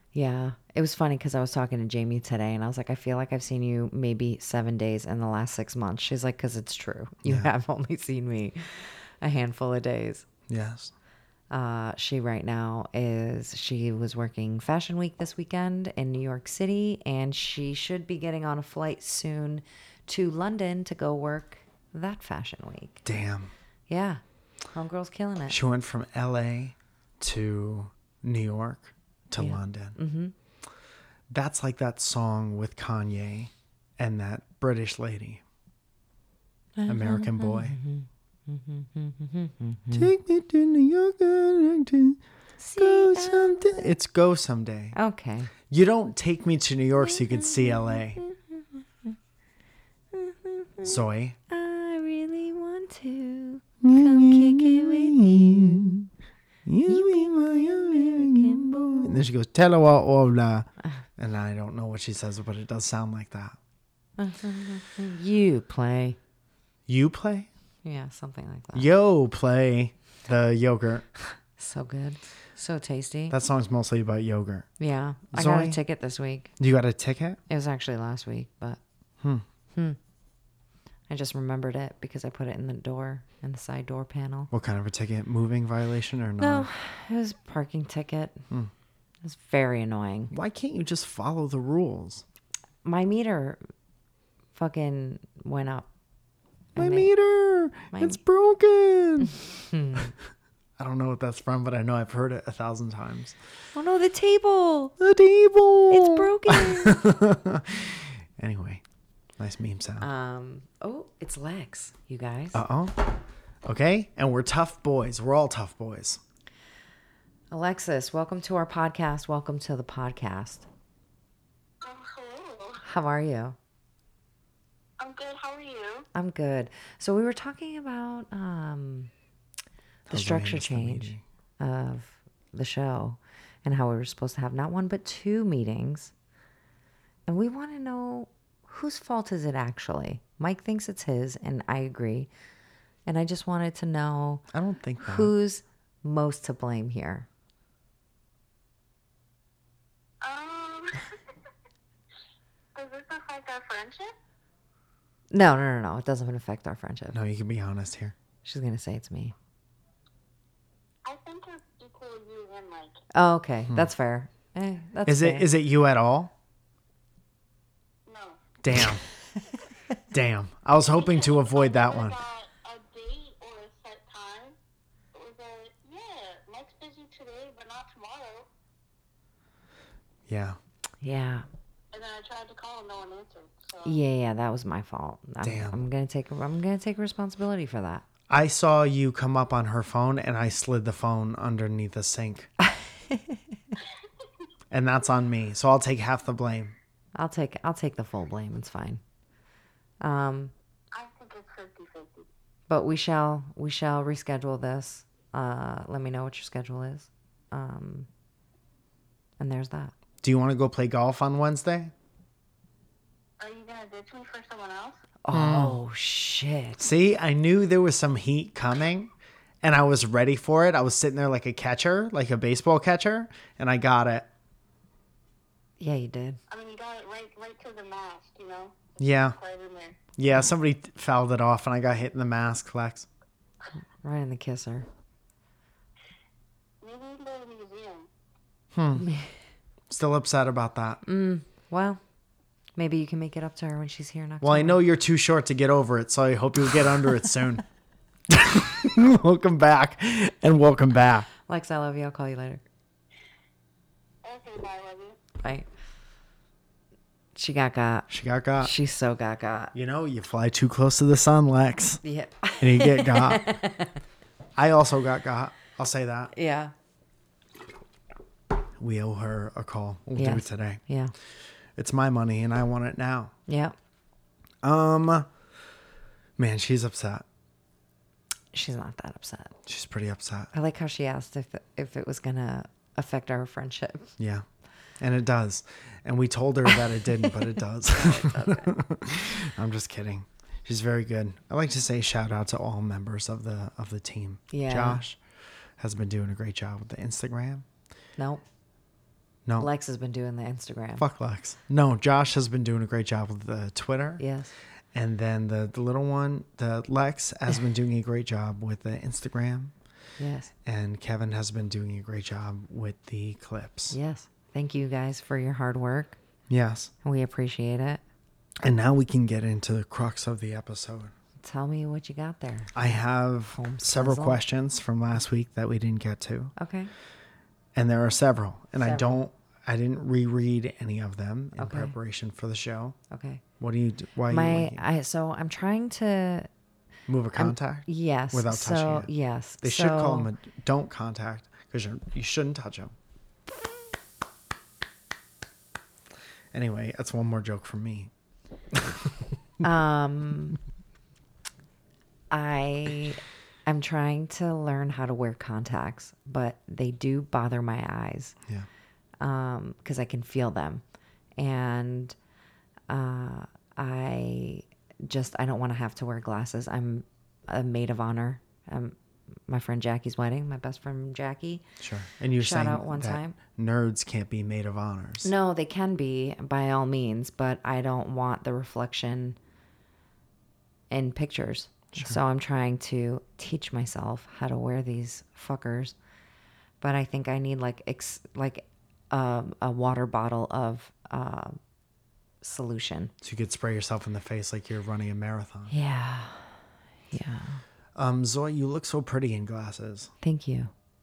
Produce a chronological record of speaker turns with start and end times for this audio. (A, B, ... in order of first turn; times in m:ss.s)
0:00.1-0:10.2 A
0:07.2-0:07.5 B
0:10.5-0:10.9 B
0:11.5-0:23.0 A
0:23.0-0:23.5 B
0:23.9-0:25.6 A
0:25.5-0:30.0 B
0:29.4-0:30.3 A
0:31.3-0:35.4 B
0:36.8-0:40.1 A
0:36.8-0:37.8 B
0:39.9-0:42.2 B
0:42.6-0:43.9 A
0:42.8-0:45.0 B
0:44.9-0:45.5 A
0:45.7-0:48.2 B
0:47.1-0:49.2 A
0:50.1-0:55.8 A
0:50.8-0:51.4 B
0:53.8-0:56.1 B
0:56.6-1:03.6 B
0:56.9-0:59.1 A
1:04.2-1:06.2 A
1:06.9-1:07.5 B
1:07.8-1:08.9 A
1:08.7-1:11.0 B
1:11.2-1:13.4 A
1:13.3-1:14.7 B
1:14.8-1:16.5 A
1:15.3-1:15.8 B
1:16.6-1:17.4 B
1:17.5-1:18.8 A
1:21.1-1:24.5 A
1:24.5-1:26.7 B
1:26.4-1:28.4 A
1:29.2-1:30.3 A
1:30.3-1:32.2 B
1:32.8-1:33.6 A
1:34.5-1:35.9 A
1:36.7-1:37.1 A
1:36.8-1:39.3 B
1:37.9-1:38.2 A
1:39.2-1:40.1 A
1:40.8-1:43.4 B
1:43.7-1:45.0 A
1:45.0-1:48.8 B
1:45.9-1:47.0 A
1:49.4-1:50.1 B
1:50.0-1:52.6 A
1:52.5-1:56.2 B
1:57.5-2:00.6 A
2:01.8-2:02.8 C
2:02.8-2:03.6 A
2:05.0-2:06.1 C
2:06.1-2:09.1 A
2:10.1-2:11.2 B
2:10.1-2:16.1 A
2:17.3-2:22.3 A
2:23.0-2:24.4 A
2:24.5-2:25.3 B
2:25.0-2:27.3 A
2:30.2-2:31.2 C
2:32.7-2:34.1 C
2:35.3-2:37.2 A
2:37.1-2:38.1 B
2:38.4-2:39.3 A
2:41.0-2:43.0 C
2:43.1-2:45.5 A
2:45.0-2:46.3 B
2:48.0-2:48.4 C
2:48.6-2:49.0 B
2:50.1-2:52.2 B
2:50.9-2:54.6 C
2:55.1-2:58.5 C
3:00.3-3:00.6 B
3:01.0-3:01.4 A
3:01.9-3:04.0 C
3:03.8-3:08.0 A
3:05.4-3:05.8 B
3:08.3-3:12.5 B
3:12.6-3:13.4 A
3:14.7-3:16.7 B
3:17.1-3:19.0 A
3:20.0-3:20.5 A
3:20.9-3:22.3 C
3:22.7-3:28.1 A
3:29.4-3:29.9 A
3:30.2-3:31.9 B
3:33.4-3:35.0 C
3:35.2-3:36.8 A
3:35.3-3:35.8 B
3:36.8-3:39.1 B
3:39.6-3:44.3 B
3:45.8-3:46.4 A
3:46.5-3:50.0 C
3:49.0-3:49.4 B
3:50.2-3:53.1 B
3:54.0-3:54.9 A
3:56.8-3:58.1 C
3:58.7-3:59.1 B
3:59.0-3:59.3 A
3:59.9-4:01.0 B
4:01.0-4:02.0 A
4:02.8-4:04.8 A
4:04.4-4:07.6 B
4:08.3-4:11.3 B
4:11.4-4:12.6 A
4:14.2-4:15.2 C
4:15.4-4:15.7 A
4:17.3-4:19.7 A
4:18.1-4:18.7 B
4:19.7-4:22.0 B
4:22.0-4:24.0 A
4:22.6-4:23.5 B
4:24.6-4:26.3 B
4:26.3-4:26.7 A
4:28.8-4:30.8 B
4:30.2-4:31.1 A
4:31.8-4:33.3 B
4:33.5-4:33.7 A
4:34.6-4:35.3 B
4:36.4-4:37.2 B
4:38.5-4:39.5 A
4:39.6-4:40.5 B
4:40.5-4:44.1 A
4:44.2-4:44.4 B
4:45.0-4:55.2 B
4:47.2-4:48.7 A
4:54.5-4:55.0 A
4:55.8-4:57.6 B
4:58.2-4:58.4 A
4:59.6-5:01.0 A
5:01.0-5:04.2 B
5:04.2-5:04.5 A
5:04.9-5:09.7 B
5:10.2-5:10.5 A
5:10.6-5:14.0 B
5:13.9-5:16.2 A
5:16.5-5:16.9 B
5:17.0-5:18.0 A
5:18.6-5:21.1 B
5:21.4-5:22.9 A
5:22.7-5:26.5 B
5:23.5-5:24.4 A
5:26.6-5:26.9 A
5:27.7-5:33.0 B
5:28.8-5:29.2 A
5:31.6-5:31.9 A
5:33.1-5:33.4 A
5:33.6-5:34.8 B
5:34.3-5:36.5 A
5:37.1-5:42.9 B
5:37.3-5:40.3 A
5:46.5-5:48.1 B
5:48.7-5:49.3 B
5:49.6-5:50.6 A
5:52.3-5:58.4 A
5:59.2-6:00.8 A
6:01.4-6:02.2 A
6:02.9-6:09.0 A
6:09.5-6:11.6 A
6:11.8-6:15.3 B
6:12.4-6:13.4 A
6:15.2-6:19.4 A
6:20.9-6:25.9 A
6:26.8-6:31.6 A
6:32.4-6:33.1 A
6:33.2-6:35.7 B
6:35.7-6:37.6 A
6:37.9-6:40.1 B
6:40.2-6:40.7 A